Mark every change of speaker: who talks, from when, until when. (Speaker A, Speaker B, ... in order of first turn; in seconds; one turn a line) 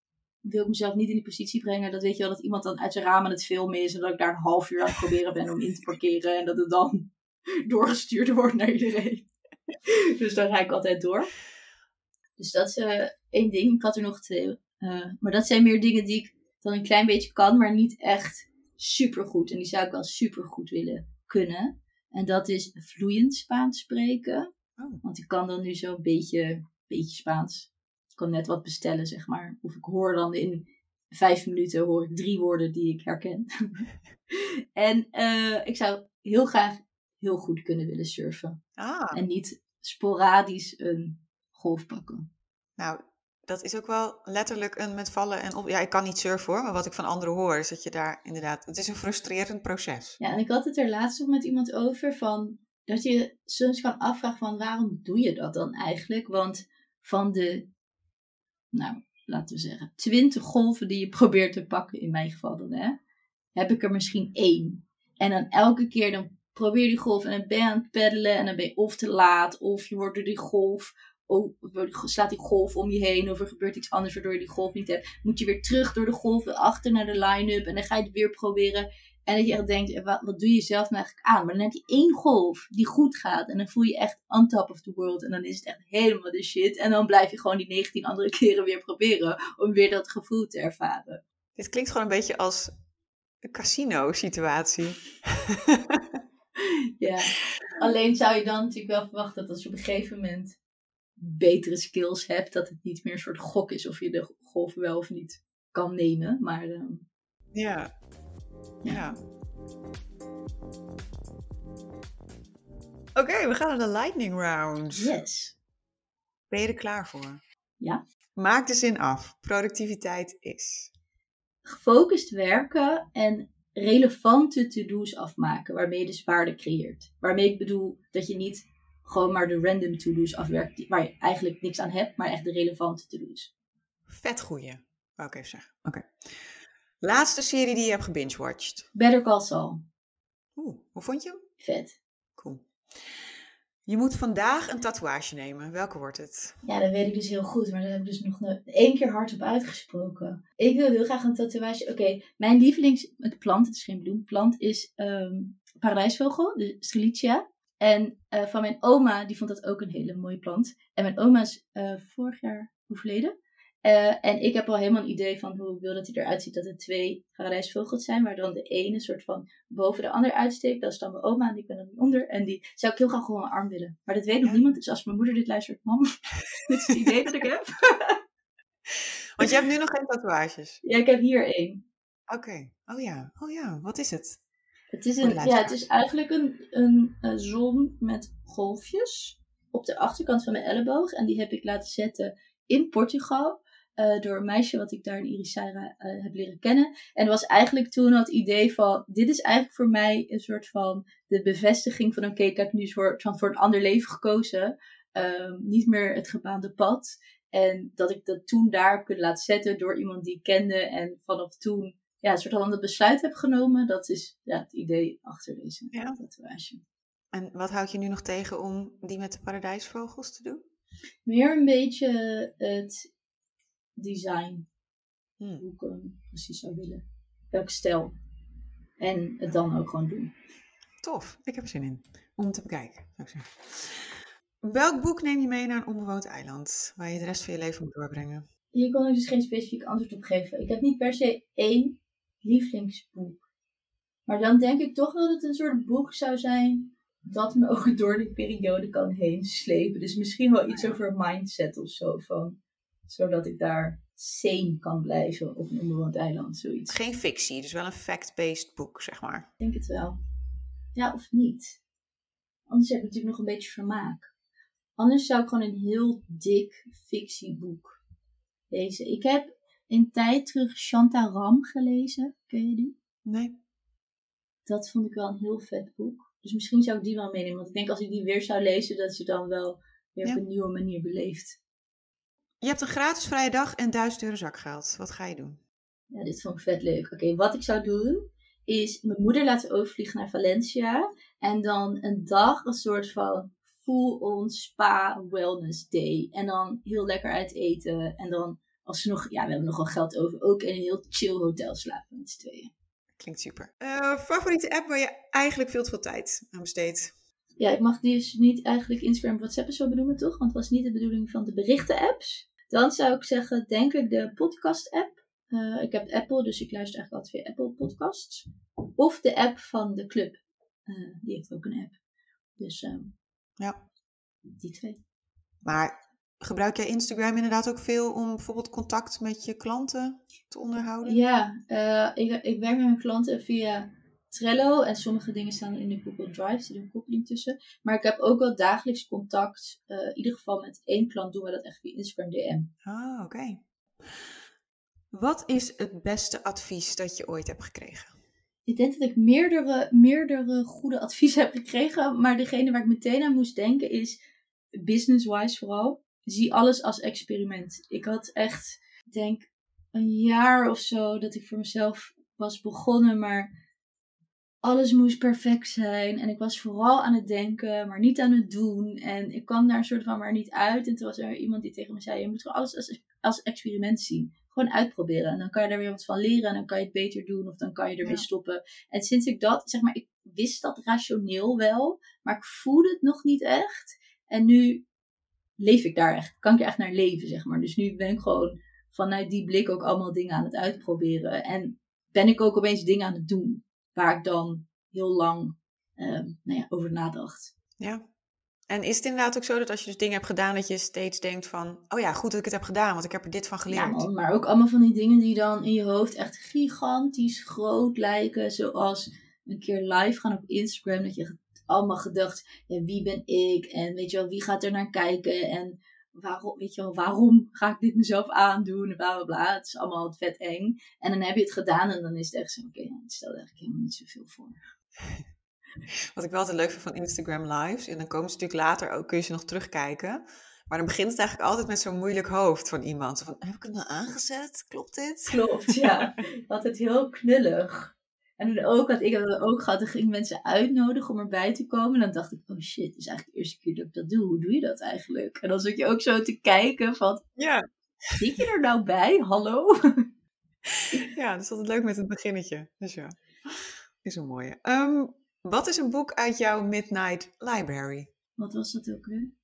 Speaker A: 0.4-7.1
Speaker A: 7.7-9.3
Speaker A: 9.8-11.3
Speaker A: 12.4-24.5
Speaker B: 24.8-25.0
Speaker A: 25.0-38.6
Speaker B: 38.8-39.2
Speaker A: 39.1-42.3
Speaker B: 42.8-50.2
Speaker A: 50.2-57.7
Speaker A: 58.7-63.0
Speaker A: 63.5-91.2
Speaker B: 91.6-92.8
Speaker B: 93.4-96.2
Speaker A: 96.6-100.6
Speaker A: 101.2-107.0
Speaker B: 107.5-107.9
Speaker B: 108.9-109.2
Speaker B: 113.1-115.1
Speaker A: 114.9-115.5
Speaker B: 116.5-117.4
Speaker B: 118.4-120.9
Speaker A: 121.7-133.5
Speaker B: 134.1-138.9
Speaker A: 138.9-139.8
Speaker B: 140.6-141.4
Speaker A: 141.6-142.0
Speaker B: 142.4-143.2
Speaker B: 143.9-146.6
Speaker A: 146.6-178.2
Speaker B: 178.9-180.8
Speaker A: 180.8-181.8
Speaker B: 182.3-184.4
Speaker A: 184.9-216.8
Speaker B: 185.2-185.8
Speaker B: 215.9-216.2
Speaker B: 217.3-220.6
Speaker A: 221.3-223.1
Speaker A: 224.0-224.7
Speaker A: 225.6-228.1
Speaker A: 229.0-230.3
Speaker B: 231.0-238.4
Speaker A: 238.7-243.4
Speaker A: 244.3-252.6
Speaker B: 250.7-251.0
Speaker A: 253.1-257.0
Speaker B: 256.9-259.5
Speaker A: 259.6-260.2
Speaker A: 260.9-261.8
Speaker A: 262.7-264.3
Speaker A: 265.0-268.0
Speaker A: 268.7-272.9
Speaker B: 273.2-273.6
Speaker A: 274.7-281.6
Speaker B: 282.6-285.6
Speaker A: 286.1-302.7
Speaker B: 303.2-307.1
Speaker A: 307.6-318.4
Speaker A: 318.9-321.9
Speaker A: 322.6-323.1
Speaker A: 324.6-325.0
Speaker B: 325.6-331.2
Speaker A: 331.0-342.7
Speaker B: 342.9-344.3
Speaker B: 345.1-348.1
Speaker A: 348.7-354.2
Speaker A: 354.8-363.5
Speaker A: 364.6-384.8
Speaker A: 385.6-397.5
Speaker B: 397.8-398.0
Speaker B: 398.7-404.1
Speaker A: 403.7-424.6
Speaker B: 425.9-435.7
Speaker A: 435.3-447.2
Speaker B: 447.4-448.2
Speaker A: 448.2-450.0
Speaker B: 450.7-458.1
Speaker A: 458.4-459.3